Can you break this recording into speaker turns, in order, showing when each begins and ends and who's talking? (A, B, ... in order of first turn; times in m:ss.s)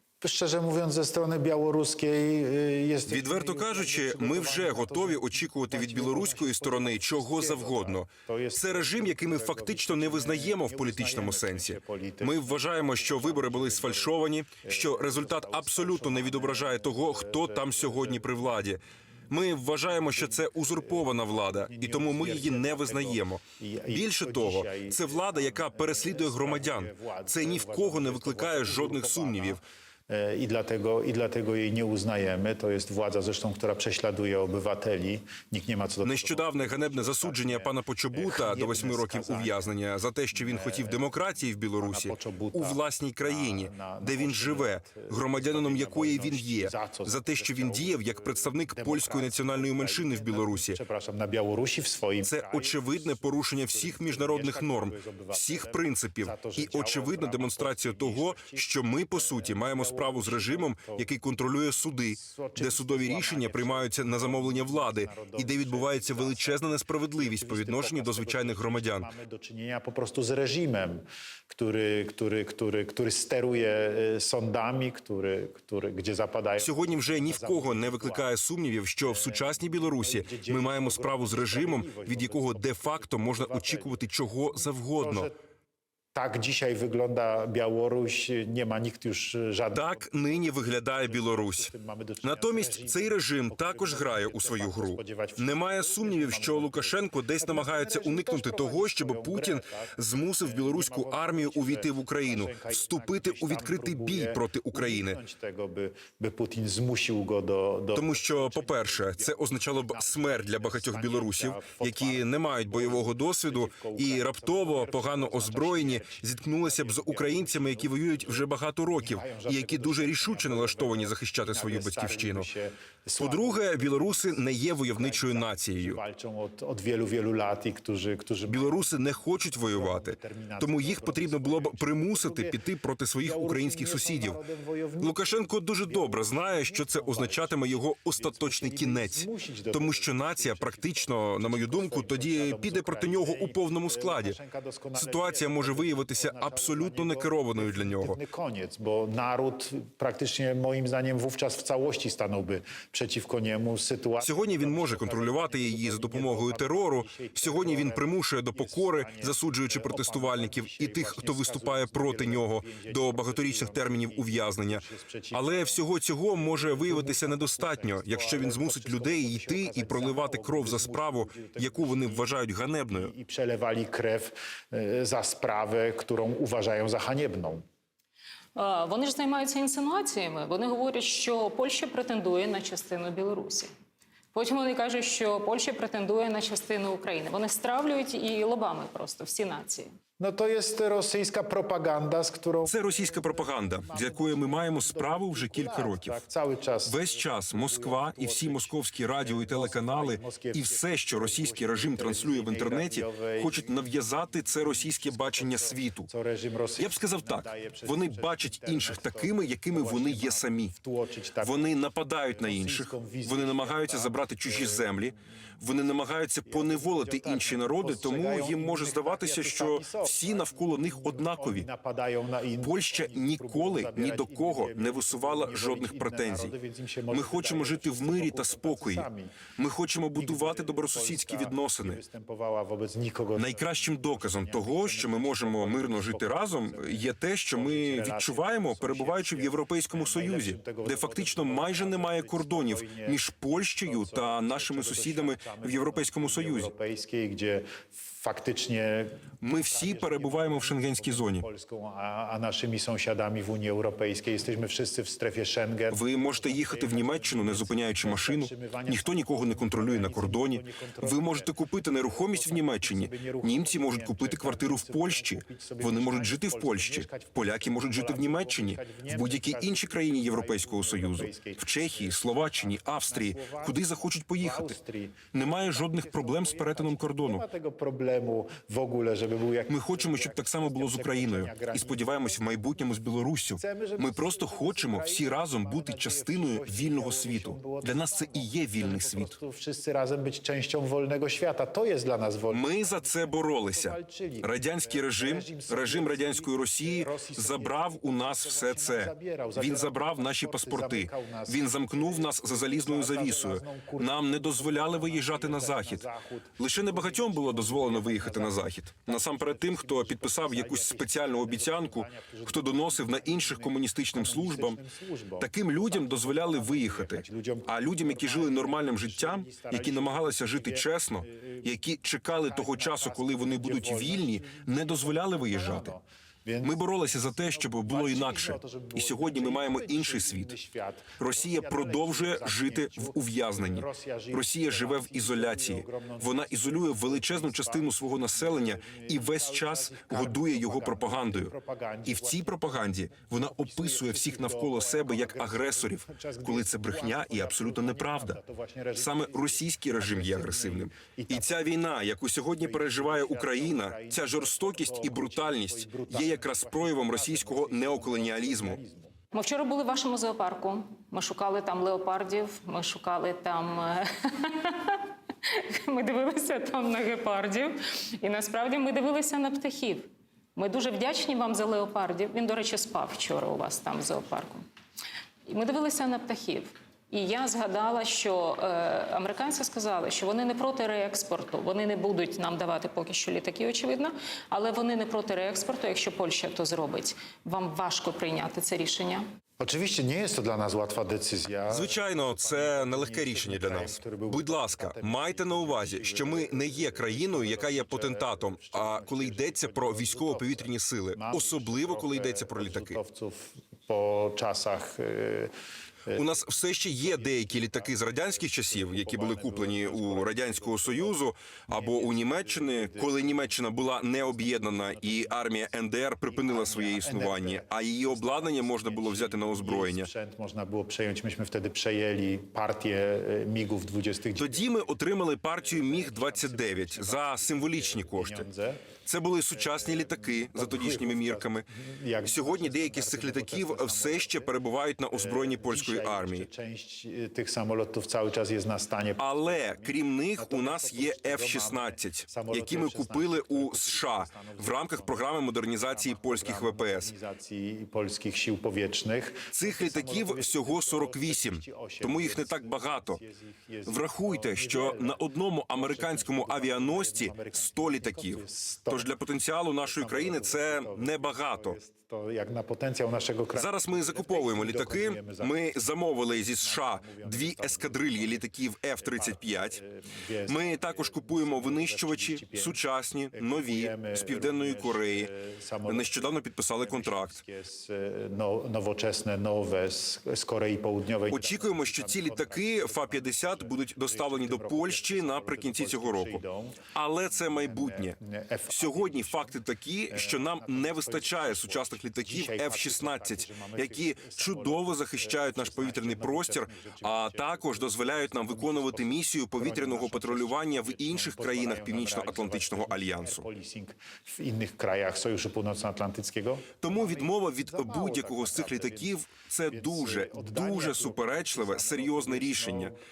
0:00.2-0:18.6 A
0:03.1-0:29.6 B
0:19.9-0:39.6 A
0:36.0-0:50.8 B
0:40.3-0:41.2 A
0:41.8-1:01.1 A
0:52.2-1:09.1 B
1:02.1-1:18.3 A
1:16.6-1:25.3 B
1:19.0-1:24.0 A
1:25.0-1:25.3 A
1:26.1-2:09.0 A
1:29.7-1:31.7 B
1:32.2-1:45.2 B
1:47.9-2:02.5 B
2:03.2-2:06.0 B
2:08.5-2:14.4 B
2:09.6-2:12.6 A
2:13.2-2:52.4 A
2:15.0-2:24.4 B
2:25.0-2:28.2 B
2:34.2-2:53.1 B
2:52.9-2:57.6 A
2:58.6-3:03.7 C
3:04.3-3:09.9 C
3:10.2-3:31.8 A
3:12.6-3:16.2 B
3:16.8-3:26.1 B
3:26.8-3:30.7 B
3:31.4-3:41.7 B
3:32.3-3:35.1 A
3:36.4-3:49.5 A
3:42.6-3:46.5 B
3:47.1-3:52.0 B
3:50.1-4:03.2 A
3:53.4-4:06.7 B
4:03.8-4:42.6 A
4:09.4-4:11.4 B
4:15.9-4:34.8 B
4:35.3-4:37.4 B
4:39.7-4:49.4 B
4:43.6-5:21.8 A
4:52.5-5:06.1 B
5:06.6-5:14.8 B
5:15.4-5:25.9 B
5:22.4-5:51.7 A
5:26.6-5:30.5 B
5:31.2-5:41.5 B
5:42.1-5:48.4 B
5:48.9-5:58.8 B
5:52.6-5:59.1 A
5:59.3-6:14.6 C
6:15.5-6:29.2 C
6:29.6-6:45.5 A
6:31.7-6:43.0 B
6:46.1-7:00.1 B
6:47.0-7:04.9 A
7:04.3-7:08.4 B
7:05.6-7:08.9 A
7:09.0-7:11.6 B
7:09.5-7:14.5 A
7:12.2-7:16.5 B
7:15.1-7:39.1 A
7:19.2-7:27.1 B
7:29.5-7:33.2 B
7:33.8-7:41.8 B
7:39.8-7:45.6 A
7:43.5-7:49.8 B
7:46.5-8:09.6 A
7:50.5-7:55.3 B
7:55.8-7:57.4 B
8:01.3-8:08.2 B
8:08.7-8:23.4 B
8:10.1-8:29.1 A
8:26.8-8:32.9 B
8:29.7-8:33.0 A